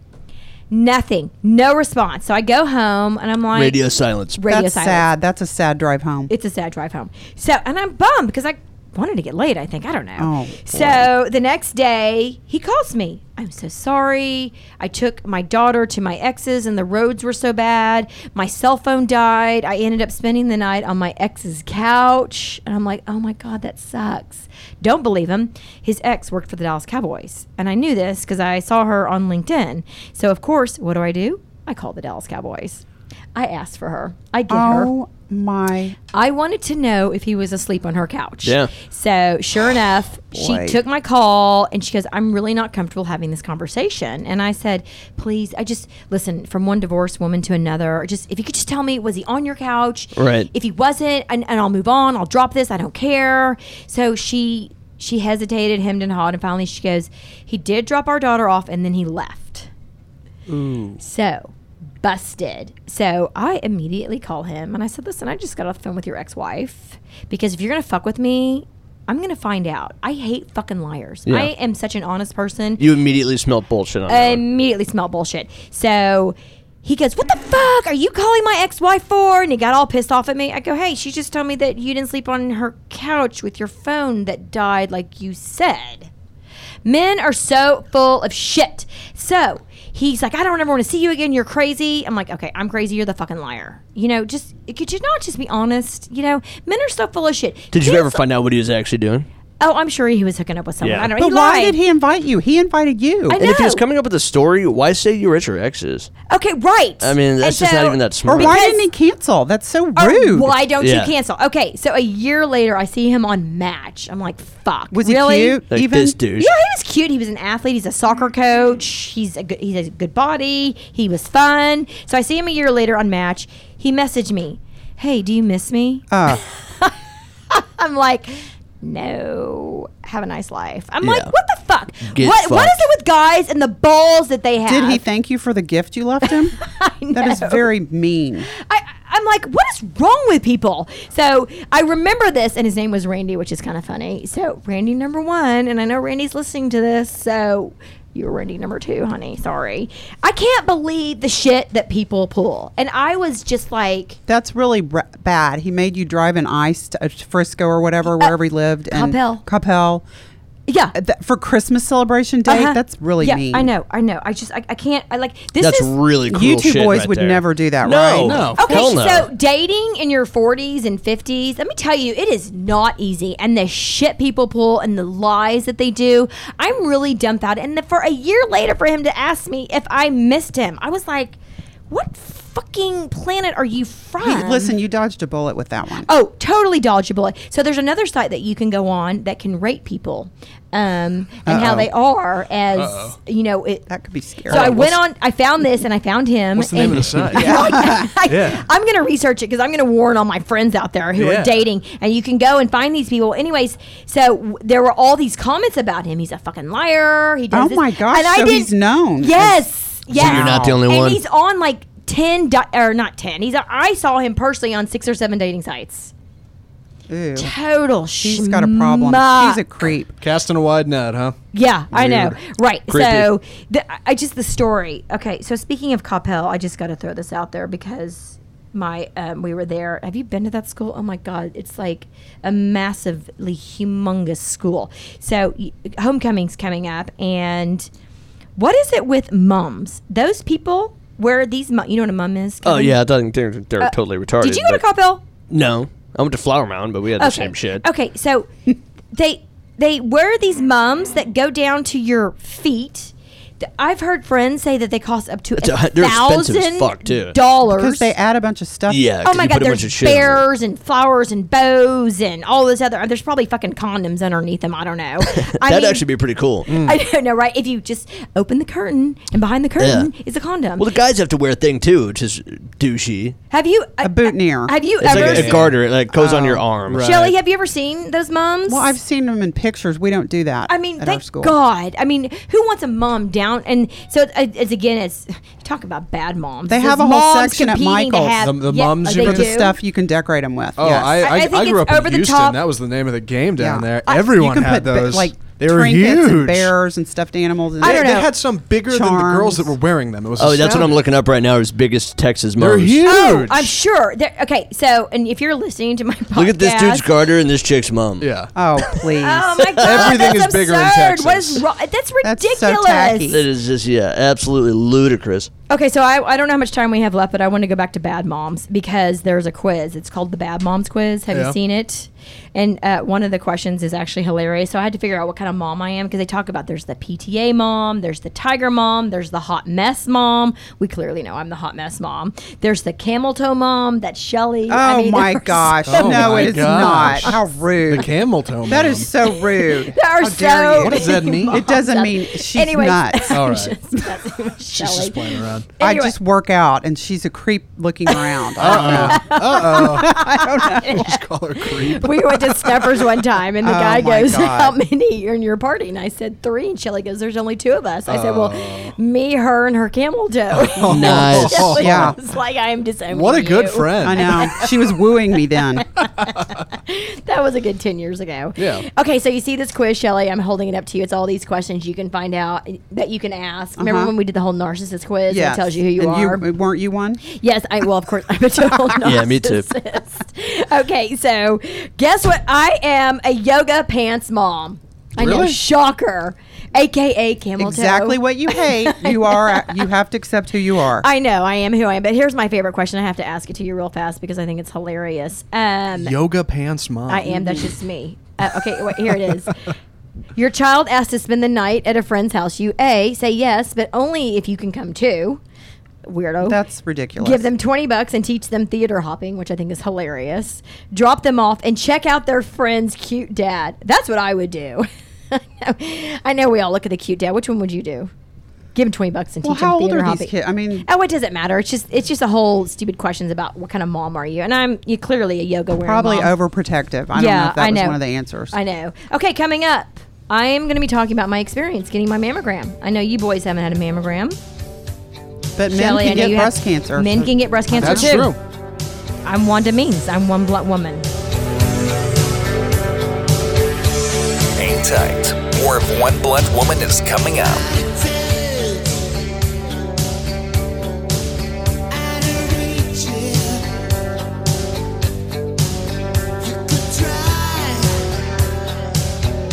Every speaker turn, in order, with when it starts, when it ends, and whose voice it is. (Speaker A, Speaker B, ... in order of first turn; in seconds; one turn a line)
Speaker A: 0.7-3.8
Speaker B: 3.5-4.4
Speaker A: 4.4-5.1
Speaker C: 4.5-6.3
Speaker A: 6.3-32.8
Speaker C: 10.2-11.1
Speaker A: 33.3-34.9
Speaker C: 34.5-36.0
Speaker A: 36.1-59.7
Speaker B: 38.4-38.7
Speaker C: 40.3-40.8
Speaker B: 50.1-50.5
Speaker D: 60.5-61.0
Speaker A: 61.0-72.8
Speaker B: 72.8-74.4
Speaker A: 74.1-86.1
Speaker A: 86.8-98.2
Speaker B: 97.7-99.3
Speaker A: 99.6-101.8
Speaker B: 100.8-101.1
Speaker C: 101.2-103.4
Speaker A: 103.3-103.8
Speaker B: 103.4-106.1
Speaker A: 106.3-108.8
Speaker B: 107.0-108.6
Speaker C: 108.3-110.6
Speaker A: 110.0-115.6
Speaker B: 110.8-111.1
Speaker C: 114.9-116.2
Speaker B: 115.7-116.5
Speaker A: 116.4-126.1
Speaker C: 126.1-126.4
Speaker A: 127.5-135.0
Speaker B: 131.0-131.3
Speaker B: 132.1-132.8
Speaker C: 134.7-136.6
Speaker A: 136.6-137.7
Speaker C: 137.1-138.5
Speaker A: 138.6-154.2
Speaker C: 154.3-160.0
Speaker A: 158.9-159.4
Speaker A: 160.7-160.9
Speaker C: 160.9-163.7
Speaker A: 162.5-165.9
Speaker B: 165.6-169.3
Speaker C: 166.3-168.6
Speaker D: 168.2-168.8
Speaker A: 168.5-181.4
Speaker A: 181.9-184.7
Speaker C: 184.2-186.1
Speaker A: 186.0-193.9
Speaker C: 191.4-191.9
Speaker D: 192.8-193.2
Speaker C: 193.9-194.9
Speaker A: 194.5-216.1
Speaker D: 194.5-195.0
Speaker D: 196.5-197.7
Speaker C: 197.3-198.1
Speaker D: 198.3-198.6
Speaker D: 201.2-201.6
Speaker C: 207.5-210.8
Speaker B: 210.1-211.2
Speaker C: 217.1-217.5
Speaker A: 217.3-219.6
Speaker C: 218.2-220.2
Speaker D: 220.2-221.3
Speaker A: 221.5-237.9
Speaker D: 221.9-222.3
Speaker B: 222.9-223.3
Speaker A: 238.6-243.0
Speaker B: 242.6-244.8
Speaker A: 243.8-245.2
Speaker B: 245.5-247.8
Speaker A: 247.2-248.5
Speaker A: 249.1-258.1
Speaker B: 255.6-257.4
Speaker C: 257.6-259.0
Speaker B: 258.9-260.4
Speaker A: 259.2-266.0
Speaker B: 265.3-266.7
Speaker A: 266.7-270.8
Speaker D: 266.7-267.0
Speaker B: 269.8-270.1
Speaker B: 270.8-273.4
Speaker A: 273.5-275.6
Speaker C: 274.0-274.7
Speaker B: 275.0-277.1
Speaker D: 275.1-275.8
Speaker C: 276.2-276.6
Speaker D: 276.9-277.3
Speaker A: 277.0-278.9
Speaker C: 278.7-281.6
Speaker A: 280.7-289.8
Speaker C: 286.7-288.5
Speaker D: 288.4-289.6
Speaker C: 289.1-291.2
Speaker D: 290.8-296.7
Speaker A: 291.2-292.6
Speaker C: 293.6-298.3
Speaker A: 297.8-298.3
Speaker D: 297.8-301.0
Speaker C: 298.9-299.7
Speaker B: 300.4-303.1
Speaker D: 302.6-303.7
Speaker A: 303.0-307.1
Speaker B: 306.3-308.3
Speaker D: 308.2-308.5
Speaker C: 308.5-309.6
Speaker A: 309.1-313.4
Speaker D: 309.8-311.6
Speaker C: 312.2-313.4
Speaker B: 313.3-315.5
Speaker A: 315.7-337.4
Speaker D: 321.3-321.6
Speaker C: 334.7-338.1
Speaker D: 335.9-339.1
Speaker C: 338.6-343.4
Speaker A: 339.4-346.1
Speaker D: 340.8-341.6
Speaker D: 343.3-343.8
Speaker D: 344.7-345.7
Speaker C: 345.8-350.9
Speaker A: 348.6-364.9
Speaker D: 348.6-352.9
Speaker C: 353.6-354.8
Speaker D: 358.1-358.9
Speaker D: 360.6-362.1
Speaker B: 360.9-361.8
Speaker C: 361.8-362.1
Speaker D: 363.1-364.4
Speaker C: 364.0-365.9
Speaker A: 365.9-376.5
Speaker D: 368.6-368.9
Speaker C: 373.8-374.1
Speaker C: 375.3-377.2
Speaker A: 377.2-389.8
Speaker B: 379.0-379.7
Speaker C: 385.2-385.5
Speaker C: 387.6-391.1
Speaker A: 391.0-396.2
Speaker D: 395.9-397.6
Speaker A: 397.1-399.6
Speaker A: 400.4-405.4
Speaker A: 406.0-406.6
Speaker C: 406.4-407.5
Speaker A: 407.2-418.1
Speaker A: 418.7-420.3
Speaker C: 419.4-420.9
Speaker A: 420.8-426.3
Speaker C: 425.8-428.6
Speaker A: 427.1-434.4
Speaker C: 435.6-438.2
Speaker A: 435.7-438.3
Speaker D: 437.8-438.4
Speaker A: 439.2-441.1
Speaker E: 444.6-447.8